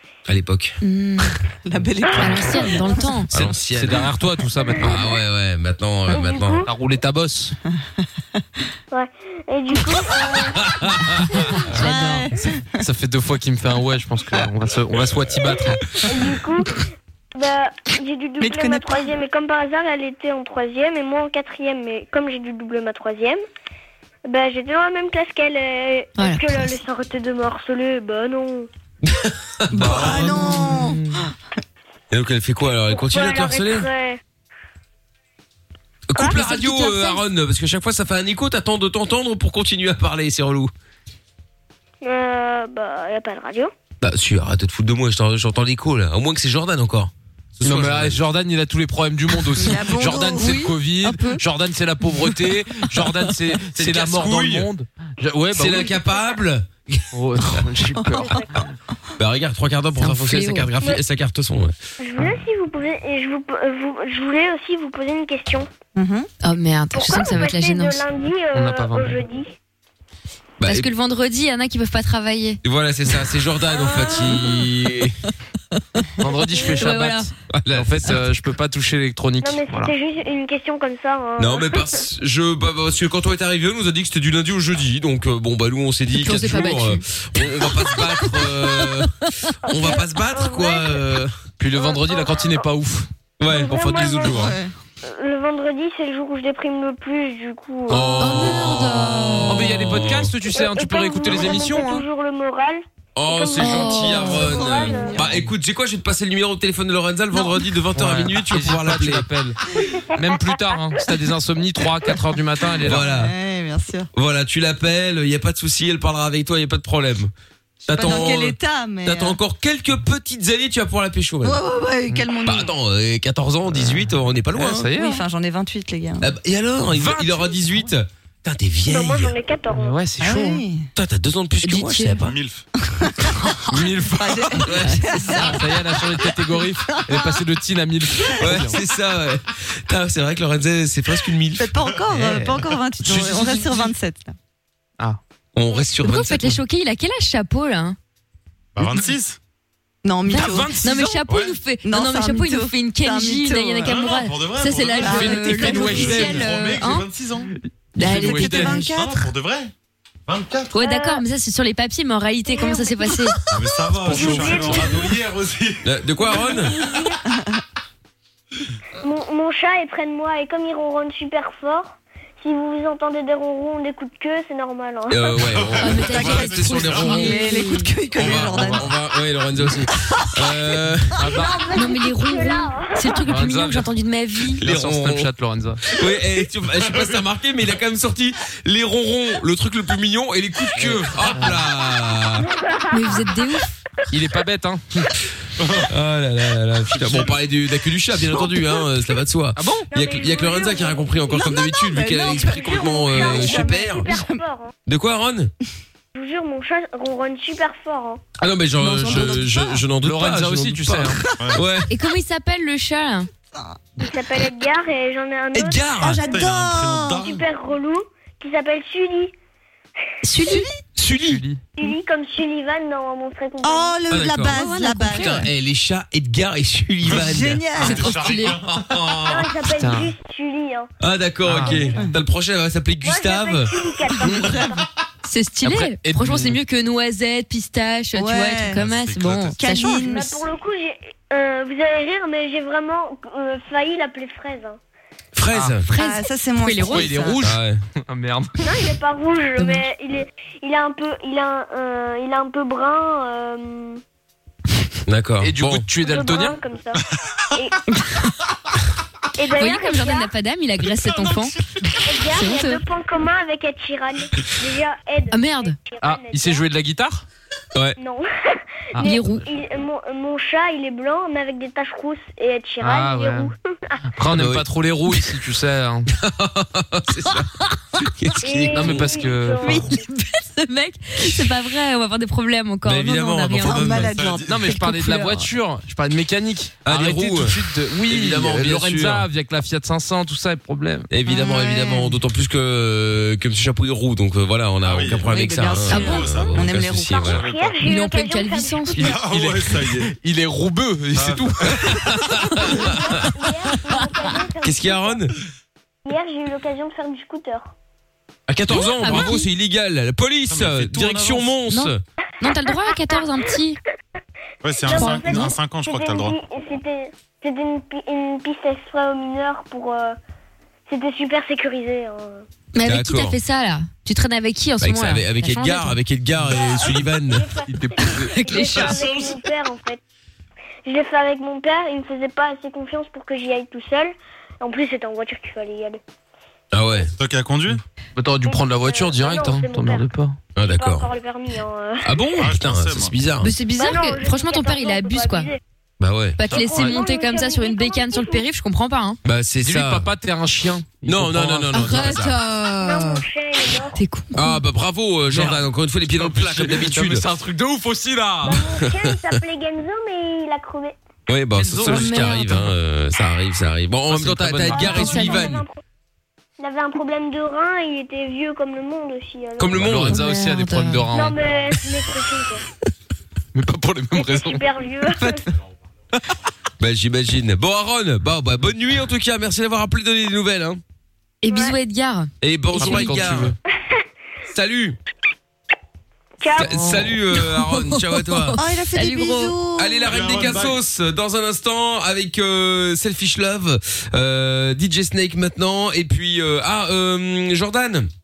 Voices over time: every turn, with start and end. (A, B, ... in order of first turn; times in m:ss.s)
0:00.3-0:00.8 A
0:00.8-0:03.0 B
0:02.1-0:03.3 C
0:03.3-0:04.1 A
0:03.3-0:05.0 D
0:04.8-0:06.7 A
0:06.1-0:06.7 E
0:06.7-0:07.6 D
0:08.9-0:10.7 E
0:10.6-0:11.4 A
0:11.6-0:12.6 B
0:11.7-0:12.3 C
0:12.8-0:16.0 D
0:16.0-0:16.8 E
0:17.4-0:23.4 E
0:18.4-0:19.1 B
0:24.3-0:28.7 E
0:26.2-0:26.7 C
0:29.0-0:30.3 A
0:29.7-0:31.0 B
0:30.0-0:31.1 C
0:32.1-0:33.9 A
0:32.9-0:34.2 E
0:36.1-0:40.7 A
0:36.2-0:36.6 E
0:36.3-0:37.2 C
0:42.0-0:43.7 E
0:44.0-0:48.2 A
0:47.6-0:56.0 D
0:49.4-0:51.1 B
0:51.0-0:51.4 C
0:52.1-0:52.3 B
0:53.0-0:53.3 B
0:53.7-0:54.7 A
0:55.5-0:57.0 A
0:57.1-0:58.7 D
0:57.9-0:58.6 B
0:59.2-1:01.7 A
1:00.0-1:00.7 C
1:02.0-1:05.7 E
1:06.0-1:06.3 B
1:06.4-1:08.0 C
1:06.9-1:09.5 E
1:08.5-1:09.2 D
1:10.6-1:10.9 A
1:10.6-1:12.6 C
1:12.6-1:15.2 A
1:13.7-1:14.5 E
1:16.2-1:19.9 D
1:16.5-1:17.3 C
1:17.5-1:18.2 A
1:19.4-1:22.0 E
1:21.4-1:29.1 A
1:26.2-1:27.0 C
1:29.6-1:31.4 A
1:29.7-1:31.0 E
1:31.6-1:33.1 D
1:31.7-1:32.6 E
1:33.4-1:34.6 A
1:33.4-1:34.5 E
1:34.2-1:34.7 B
1:35.0-1:38.3 E
1:37.9-1:40.3 A
1:38.2-1:39.6 C
1:39.5-1:42.0 D
1:40.5-1:45.2 E
1:41.3-1:41.6 A
1:43.2-1:49.3 A
1:43.6-1:45.2 C
1:45.2-1:45.5 D
1:47.9-1:49.6 D
1:50.1-1:53.1 D
1:52.8-1:53.3 A
1:52.8-1:54.1 B
1:54.1-1:57.3 A
1:57.8-2:01.6 A
1:57.9-1:59.4 B
2:01.4-2:02.7 B
2:02.4-2:04.9 A
2:03.7-2:05.2 D
2:04.9-2:06.2 B
2:06.2-2:09.3 A
2:06.9-2:07.8 D
2:08.9-2:10.0 E
2:09.7-2:10.6 D
2:10.2-2:10.8 B
2:10.9-2:12.3 A
2:11.6-2:12.3 C
2:12.2-2:12.6 F
2:13.0-2:17.4 B
2:13.7-2:18.8 D
2:14.6-2:15.0 A
2:18.2-2:18.5 B
2:18.4-2:21.7 A
2:21.6-2:24.4 B
2:22.1-2:23.9 D
2:23.1-2:23.7 A
2:25.5-2:26.6 A
2:26.0-2:28.0 C
2:28.8-2:29.4 F
2:30.0-2:30.8 B
2:30.3-2:37.1 C
2:30.4-2:31.2 D
2:31.3-2:31.6 F
2:31.8-2:34.0 B
2:33.8-2:37.5 F
2:35.0-2:36.5 B
2:35.0-2:36.4 D
2:38.0-2:38.9 C
2:38.0-2:39.3 B
2:38.0-2:38.8 D
2:38.7-2:39.7 F
2:40.3-2:40.8 F
2:40.7-2:43.4 C
2:40.8-2:41.2 E
2:42.5-2:43.2 E
2:43.5-2:45.8 F
2:44.0-2:45.2 E
2:45.8-2:46.8 A
2:46.2-2:47.2 E
2:49.0-2:55.3 E
2:55.1-2:57.4 A
2:55.5-2:57.0 F
2:55.8-2:57.9 C
2:56.0-2:58.9 B
2:58.1-3:01.3 A
2:58.2-2:58.5 F
3:01.2-3:01.6 D
3:01.2-3:03.3 E
3:01.7-3:04.6 C
3:03.2-3:03.9 D
3:04.6-3:05.3 A
3:04.6-3:05.8 D
3:05.8-3:12.5 A
3:10.8-3:11.6 D
3:12.9-3:13.7 C
3:14.1-3:15.1 D
3:15.9-3:24.1 A
3:17.0-3:17.3 F
3:19.6-3:19.9 D
3:19.9-3:24.7 E
3:21.3-3:24.4 B
3:24.8-3:25.5 A
3:26.1-3:28.2 E
3:28.4-3:31.9 A
3:28.9-3:29.7 B
3:29.0-3:29.4 D
3:29.0-3:29.4 C
3:30.0-3:31.2 D
3:31.4-3:31.6 F
3:31.9-3:33.3 C
3:34.0-3:36.4 E
3:35.5-3:36.2 A
3:36.0-3:37.2 B
3:36.2-3:37.4 F
3:37.2-3:39.3 E
3:40.2-3:40.6 C
3:40.3-3:40.8 B
3:41.0-3:41.4 A
3:41.1-3:41.6 D
3:41.8-3:44.0 E
3:43.6-3:45.5 B
3:44.1-3:49.5 A
3:44.5-3:45.4 C
3:47.1-3:48.3 B
3:47.8-3:49.2 F
3:47.8-3:48.6 C
3:49.2-3:50.9 E
3:49.7-3:50.1 D
3:51.0-3:53.7 A
3:51.4-3:51.9 D
3:51.6-3:52.1 B
3:53.0-3:54.8 E
3:54.2-3:54.7 B
3:55.2-4:00.1 C
3:55.6-3:56.6 D
3:58.1-3:58.8 B
3:58.7-3:59.6 F
3:59.6-4:00.4 B
3:59.8-4:04.8 E
4:05.3-4:05.8 A
4:05.5-4:05.8 D
4:05.9-4:07.4 B
4:05.9-4:07.2 C
4:06.8-4:08.7 D
4:07.4-4:07.8 A
4:08.6-4:14.0 E
4:09.6-4:09.8 C
4:15.1-4:15.9 A
4:15.4-4:16.6 D
4:16.0-4:17.0 E
4:17.5-4:17.8 E
4:19.4-4:20.3 E
4:19.5-4:22.8 C
4:22.0-4:26.6 E
4:25.3-4:25.8 C
4:26.0-4:27.2 D
4:28.0-4:28.3 E
4:28.9-4:34.0 E
4:28.9-4:29.5 C
4:32.8-4:33.5 D
4:34.2-4:36.1 D
4:34.3-4:35.1 A
4:36.1-4:39.2 A
4:38.4-4:40.0 E
4:38.7-4:39.8 D
4:39.6-4:44.0 C
4:42.8-4:44.1 A
4:43.6-4:44.9 B
4:44.0-4:44.8 F
4:44.5-4:51.1 D
4:44.7-4:45.5 C
4:46.8-4:49.3 A
4:51.1-4:57.4 A
4:51.2-4:52.2 B
4:54.8-4:56.6 F
4:55.3-4:57.3 B
4:56.1-4:59.3 E
4:57.3-4:57.8 F
4:57.8-4:59.2 C
4:58.9-5:00.1 F
4:59.2-5:02.1 D
5:01.1-5:02.0 F
5:01.7-5:03.1 A
5:02.8-5:05.2 E
5:04.6-5:05.3 A
5:06.0-5:07.7 E
5:08.5-5:12.0 A
5:08.7-5:09.5 C
5:10.5-5:11.5 F
5:11.7-5:13.8 C
5:12.5-5:13.2 E
5:14.6-5:16.4 F
5:14.8-5:20.2 E
5:14.9-5:15.5 C
5:20.9-5:22.4 E
5:22.7-5:26.0 C
5:22.8-5:23.4 A
5:24.8-5:27.5 A
5:26.5-5:30.0 E
5:27.6-5:29.0 D
5:28.3-5:28.9 C
5:28.9-5:29.2 F
5:30.8-5:36.0 E
5:36.7-5:37.1 A
5:37.2-5:37.8 F
5:38.2-5:40.4 D
5:38.4-5:40.1 E
5:40.5-5:41.1 A
5:40.6-5:42.2 E
5:42.0-5:43.5 A
5:42.4-5:43.1 F
5:43.4-5:45.5 C
5:43.7-5:45.6 E
5:46.0-5:46.4 A
5:46.4-5:49.2 C
5:46.4-5:48.4 E
5:46.6-5:47.0 D
5:49.2-5:50.1 A
5:49.6-5:52.2 D
5:51.0-5:52.4 A
5:51.7-5:53.2 C
5:52.8-5:54.0 E
5:53.9-5:54.6 C
5:54.3-5:57.2 A
5:55.3-5:58.6 D
5:58.4-6:00.9 E
5:58.7-5:59.2 A
6:01.3-6:05.6 A
6:01.6-6:02.3 D
6:01.8-6:02.6 C
6:04.1-6:05.5 D
6:04.7-6:05.8 E
6:04.8-6:05.6 C
6:06.6-6:09.9 E
6:09.6-6:10.2 A
6:09.7-6:11.4 D
6:10.0-6:11.1 C
6:11.1-6:12.6 E
6:13.5-6:14.6 D
6:14.1-6:15.4 E
6:15.1-6:15.4 B
6:16.8-6:20.8 A
6:21.4-6:23.3 C
6:21.5-6:21.8 E
6:22.4-6:23.6 A
6:22.7-6:23.6 D
6:24.5-6:25.0 A
6:26.4-6:27.0 E
6:26.5-6:28.6 A
6:26.6-6:29.5 C
6:28.6-6:30.1 B
6:29.8-6:38.1 A
6:30.0-6:30.8 F